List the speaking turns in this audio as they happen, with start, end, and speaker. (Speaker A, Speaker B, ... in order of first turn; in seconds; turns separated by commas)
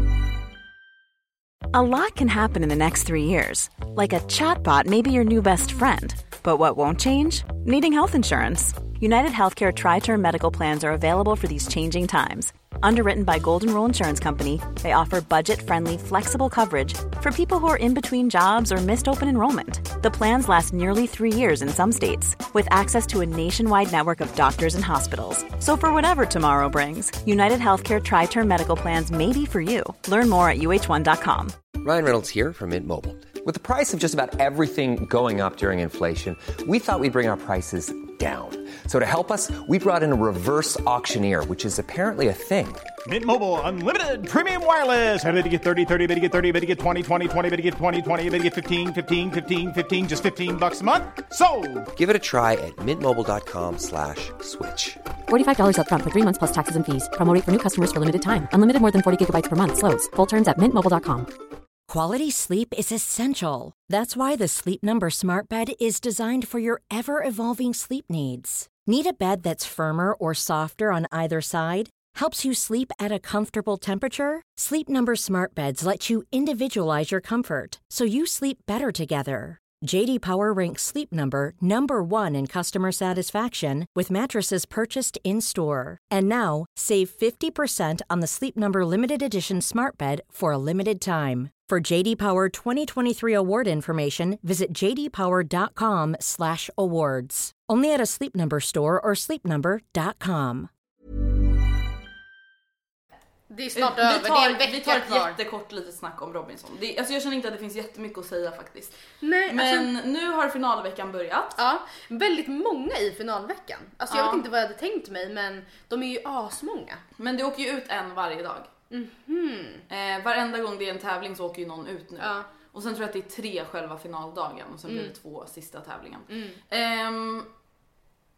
Speaker A: 1.7-31.6, Speaker B: 31.8-42.9, Speaker C: 43.1-51.9, Speaker B: 52.0-55.0, Speaker D: 55.3-61.3, Speaker E: 61.9-100.7, Speaker F: 103.5-105.3, Speaker G: 103.8-111.6, Speaker F: 109.2-109.9, Speaker F: 111.6-117.0, Speaker G: 114.1-114.4, Speaker G: 117.2-118.7, Speaker F: 118.9-119.8, Speaker G: 119.9-127.5, Speaker F: 122.2-122.5, Speaker F: 126.3-126.6